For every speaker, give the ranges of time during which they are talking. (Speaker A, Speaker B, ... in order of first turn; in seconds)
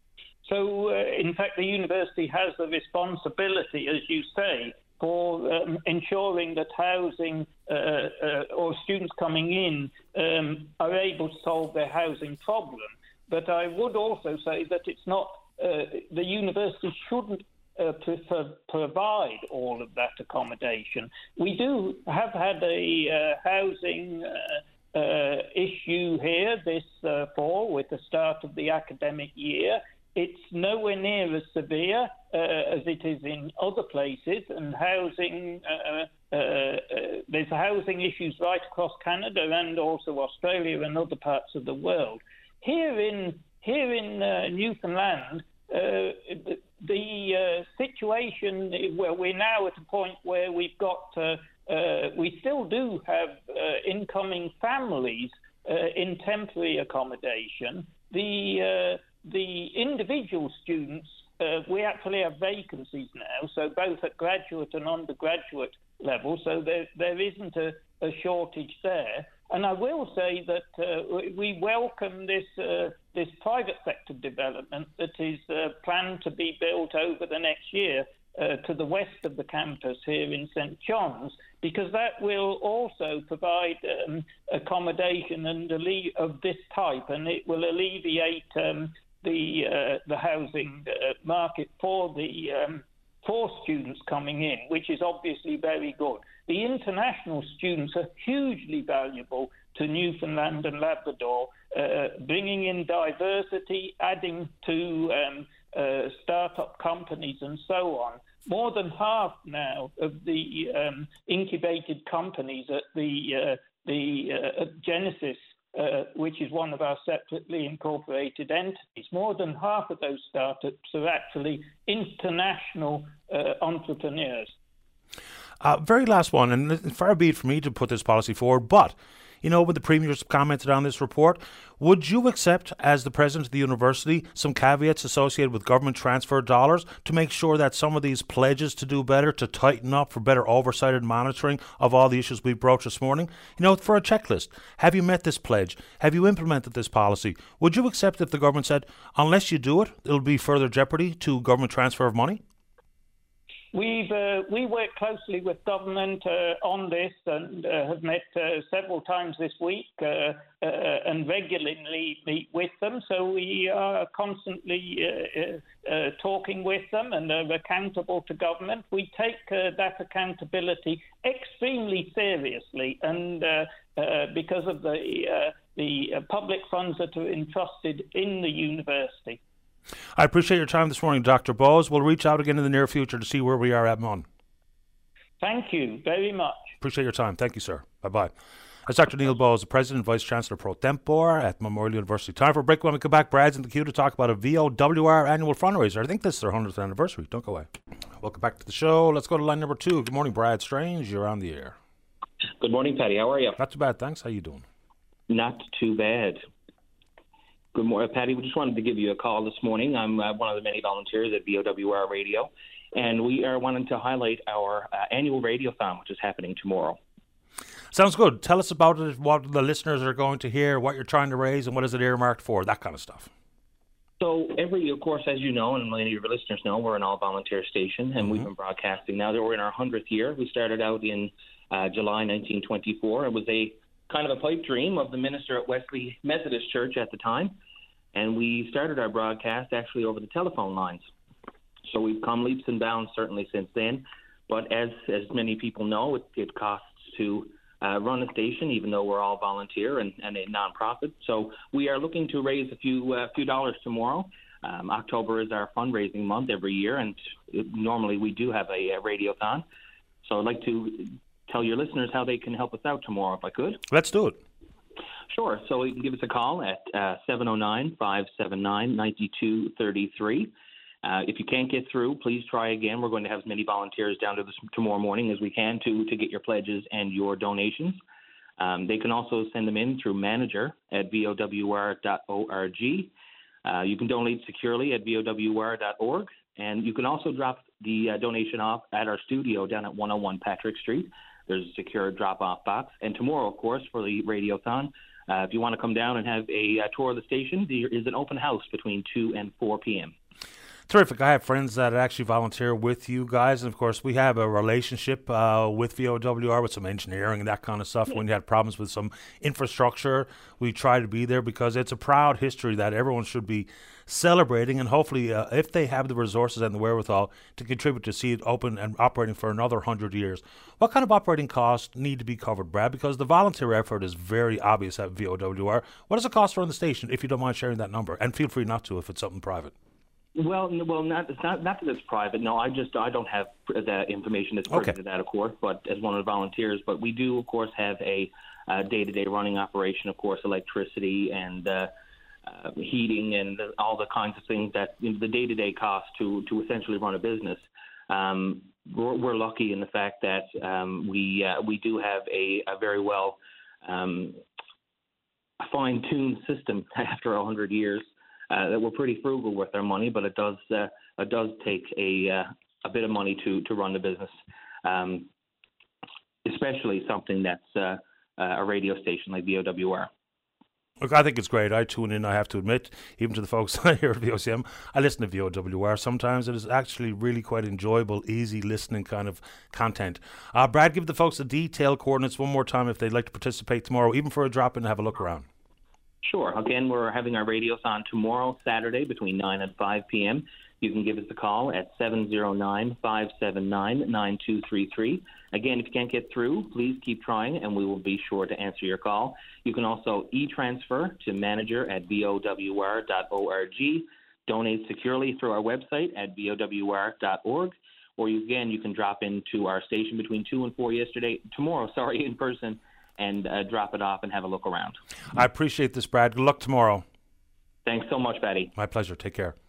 Speaker A: 0.4-124.5, 153.7-179.4, 185.4-186.7
Speaker B: 125.6-152.4, 180.2-184.2, 186.8-188.3, 188.9-197.7, 198.2-201.7, 203.6-204.6, 217.9-223.3, 263.9-264.4, 300.9-329.7, 371.0-385.4, 415.3-417.0, 418.7-419.6
Speaker C: 202.6-203.6, 205.3-206.4, 207.7-217.0, 224.2-237.6, 238.1-241.1, 241.9-259.6, 260.2-263.8, 265.3-270.5, 271.0-278.0, 278.6-283.1, 283.6-300.1, 330.3-341.9, 342.5-354.4, 355.6-365.3, 366.4-370.1, 386.2-415.0, 417.9-418.7